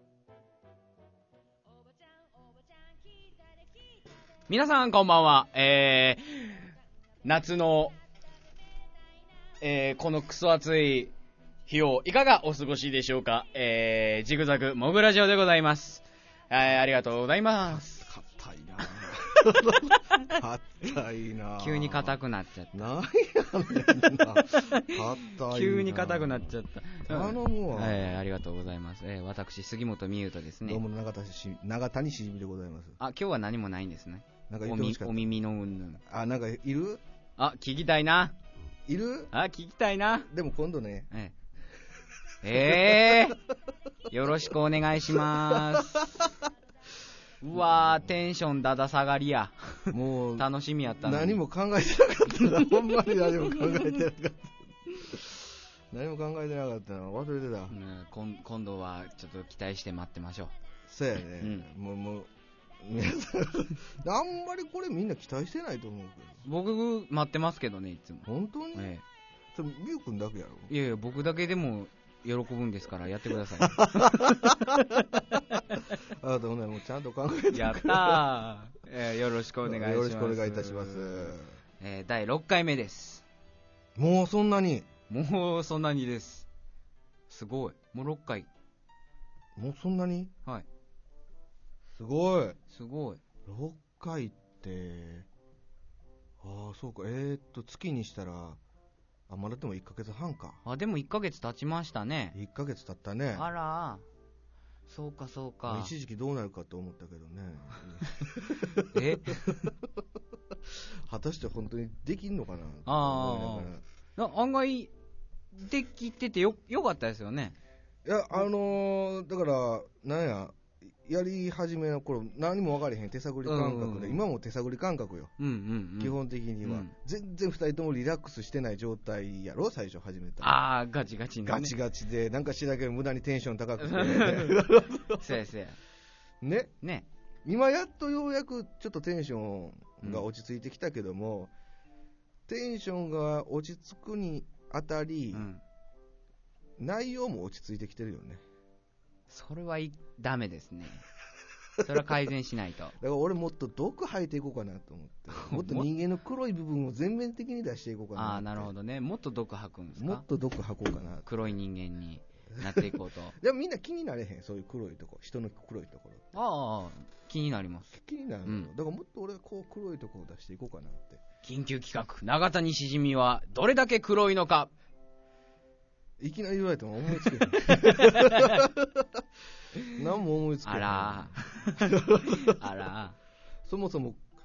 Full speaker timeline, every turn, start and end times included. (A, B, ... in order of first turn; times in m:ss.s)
0:01.6-0:04.0 A
0:04.5-0:06.7 B
0:07.2-0:07.9 B
0:09.6-0:11.1 B
0:11.7-0:17.8 B
0:17.6-0:22.2 C
0:21.6-0:22.8 B
0:22.7-0:26.5 C
0:24.5-0:30.8 B
0:27.0-0:28.2 C
0:30.6-0:33.0 C
0:33.0-0:36.0 B
0:34.5-0:35.3 C
0:36.0-0:37.0 C
0:37.4-0:38.3 B
0:38.9-0:39.3 C
0:39.3-0:40.3 B
0:40.3-0:41.1 C
0:42.4-0:43.4 B
0:42.5-0:43.4 C
0:44.1-0:46.1 B
0:45.1-0:46.4 C
0:47.4-0:51.4 B
0:47.6-0:48.0 C
0:49.9-0:57.7 C
0:57.7-1:00.5 B
1:00.9-1:02.3 C
1:01.4-1:01.6 B
1:02.8-1:06.4 C
1:06.4-1:09.0 B
1:08.2-1:08.9 C
1:09.5-1:10.7 C
1:10.7-1:15.9 B
1:13.6-1:15.4 C
1:15.9-1:18.3 C
1:17.5-1:23.2 B
1:19.6-1:21.5 C
1:24.0-1:24.9 C
1:25.1-1:26.4 B
1:27.3-1:28.5 B
1:29.6-1:30.3 C
1:31.9-1:32.6 C
1:32.7-1:33.2 B
1:33.4-1:35.3 C
1:36.4-1:38.6 C
1:39.3-1:40.6 C
1:40.6-1:42.4 B
1:42.3-1:43.5 C
1:43.3-1:44.0 B
1:44.9-1:45.9 B
1:45.7-1:49.7 C
1:48.9-1:49.7 B
1:50.5-1:53.8 C
1:52.8-1:54.9 B
1:55.5-1:57.6 B
1:58.0-2:05.3 C
2:03.4-2:04.2 B
2:05.4-2:06.9 B
2:06.0-2:10.6 C
2:10.4-2:11.7 B
2:11.4-2:15.4 C
2:13.8-2:15.8 B
2:16.4-2:16.7 C
2:16.8-2:17.1 B
2:17.4-2:21.5 C
2:22.5-2:25.5 C
2:25.3-2:25.6 B
2:26.8-2:28.4 C
2:29.3-2:31.0 B
2:31.8-2:33.0 B
2:33.0-2:38.7 C
2:35.3-2:35.9 B
2:38.1-2:40.2 B
2:40.0-2:41.5 C
2:41.2-2:43.4 B
2:42.5-2:46.2 C
2:46.3-2:47.9 B
2:47.9-2:51.2 C
2:48.4-2:48.7 B
2:51.4-2:54.7 B
2:56.2-2:59.2 C
2:57.6-2:58.6 B
2:59.9-3:02.6 C
3:00.6-3:03.2 B
3:03.6-3:04.2 C